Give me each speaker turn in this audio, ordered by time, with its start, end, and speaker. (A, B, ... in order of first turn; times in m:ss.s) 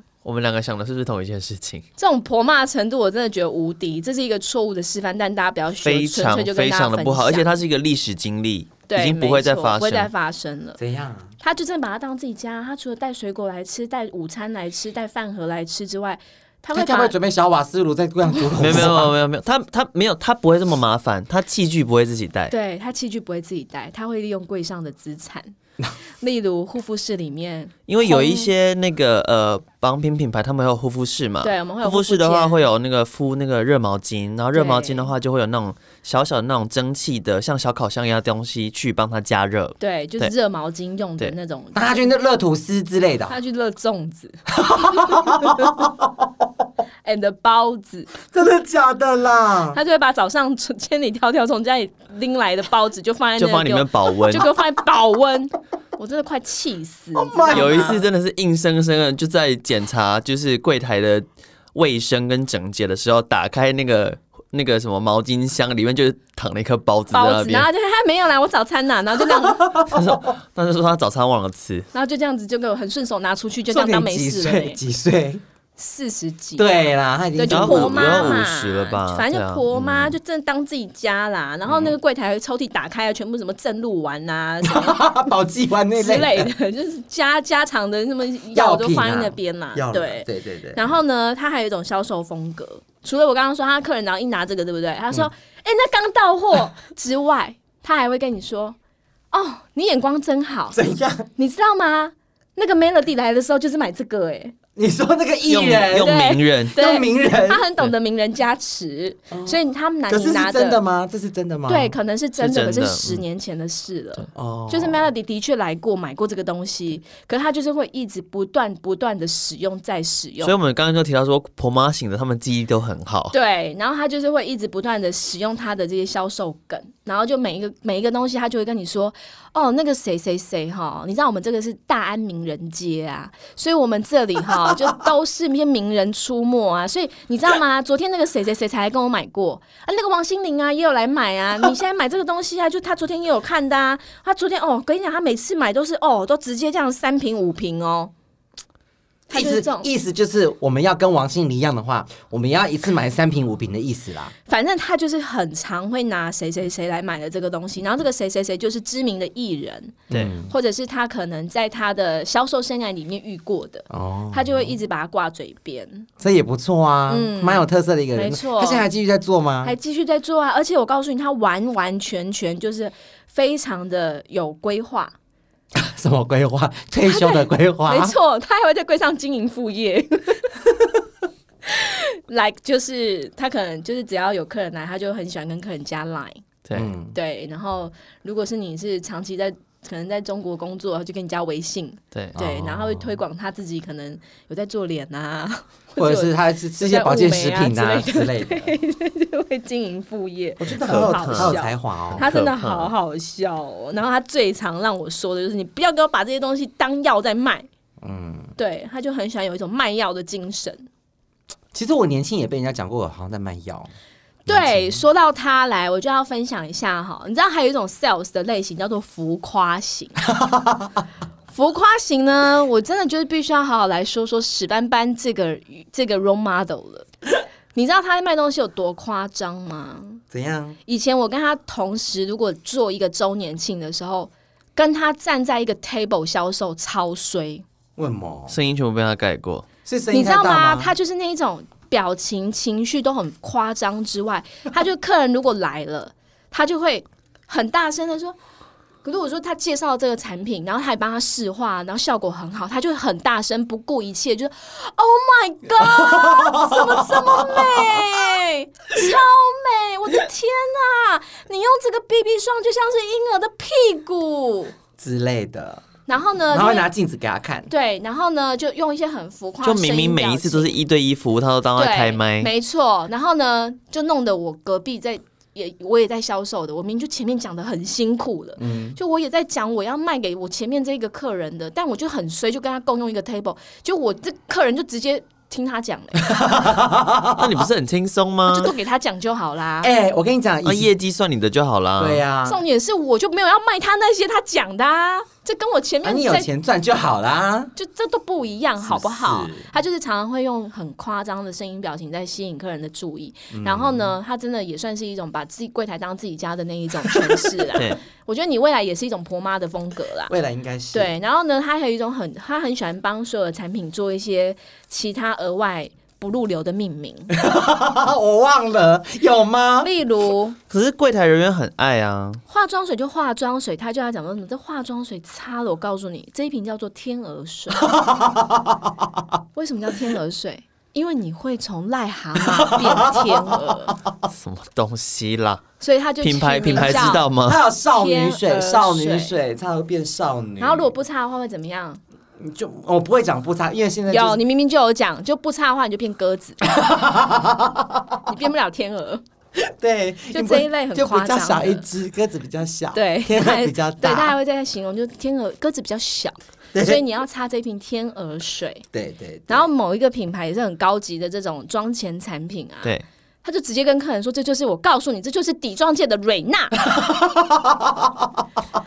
0:00.2-0:01.8 A
0:02.0-0:07.5 B
0:05.8-0:10.1 A
0:08.9-0:10.8 B
0:10.8-0:11.3 C
0:11.4-0:17.1 B
0:16.7-0:19.1 C
0:18.6-0:22.5 A
0:22.5-0:25.5 B
0:26.2-0:28.5 B
0:27.9-0:40.3 A
0:31.4-0:32.6 B
0:34.5-0:35.1 B
0:39.8-0:41.9 B
0:41.7-0:43.4 C
0:43.3-0:45.8 B
0:44.5-0:46.3 C
0:47.0-0:48.1 B
0:48.3-0:49.8 C
0:49.7-0:58.1 B
0:53.4-0:54.5 A
0:57.1-0:58.0 C
0:57.5-1:07.7 A
1:07.1-1:09.7 B
1:09.4-1:10.0 C
1:09.9-1:11.9 A
1:11.9-1:14.8 B
1:13.7-1:15.4 C
1:15.8-1:16.8 B
1:16.6-1:18.5 C
1:17.3-1:25.0 B
1:17.5-1:20.1 A
1:21.7-1:21.9 C
1:24.6-1:26.5 C
1:26.0-1:38.8 B
1:28.5-1:30.8 C
1:39.3-1:40.8 B
1:40.7-1:41.3 C
1:41.4-1:44.5 B
1:44.8-1:46.2 C
1:45.5-1:46.7 A
1:45.9-1:50.8 B
1:46.7-1:47.6 C
1:49.3-1:49.6 C
1:50.1-1:52.0 C
1:51.7-2:00.5 B
1:52.4-1:53.2 A
1:54.3-1:55.1 C
2:00.4-2:03.3 A
2:03.3-2:28.1 B
2:29.3-2:29.9 B
2:29.3-2:34.3 C
2:34.5-2:46.1 B
2:40.1-2:40.5 C
2:43.9-2:44.7 C
2:46.2-2:49.7 C
2:47.1-2:48.8 B
2:49.6-2:55.1 B
2:55.7-2:58.1 C
2:57.0-3:00.6 B
3:01.6-3:06.4 B
3:06.6-3:06.9 A
3:06.7-3:07.2 C
3:07.1-3:27.7 B
3:12.3-3:13.2 C
3:16.0-3:18.7 C
3:20.6-3:22.3 C
3:20.8-3:21.6 A
3:22.1-3:22.9 A
3:28.0-3:28.5 C
3:28.6-3:30.9 B
3:31.7-3:33.9 C
3:34.4-3:35.0 C
3:34.5-3:40.2 B
3:40.2-3:41.0 C
3:41.5-3:47.1 B
3:47.7-3:50.2 B
3:50.3-3:50.8 C
3:50.8-3:57.6 B
3:58.0-3:58.6 C
3:58.5-3:59.6 A
3:59.8-4:00.9 C
4:00.1-4:08.3 B
4:09.0-4:24.7 B
4:15.8-4:18.2 C
4:25.0-4:25.9 C
4:26.1-4:26.9 B
4:26.5-4:27.7 C
4:27.7-4:30.8 B
4:29.6-4:32.5 A
4:31.8-4:46.4 B
4:38.6-4:39.0 C
4:46.2-4:47.7 C
4:47.4-4:48.7 A
4:48.5-4:49.9 B
4:49.8-4:50.9 C
4:50.6-4:52.2 A
4:52.0-4:52.6 C
4:52.4-4:56.5 B
4:56.0-4:57.7 C
4:57.8-5:10.3 B
4:58.8-4:59.7 C
5:03.5-5:04.1 C
5:10.3-5:11.1 C
5:10.9-5:17.4 B
5:17.3-5:19.9 C
5:19.8-5:20.6 B
5:20.7-5:22.4 A
5:22.5-5:27.9 B
5:27.8-5:29.2 C
5:29.5-5:34.0 B
5:32.4-5:34.3 C
5:34.3-5:35.6 A
5:35.8-5:37.3 B
5:36.2-5:37.6 A
5:36.6-5:40.9 C
5:37.9-5:39.3 B
5:40.6-5:42.0 B
5:42.4-5:44.4 C
5:44.1-5:46.7 B
5:46.6-5:48.2 C
5:48.2-5:49.2 B
5:49.6-5:54.4 C
5:50.3-5:51.8 B
5:52.9-5:58.8 B
5:56.7-5:57.0 C
5:58.9-5:59.7 C
5:59.5-6:06.8 B
6:06.8-6:08.4 C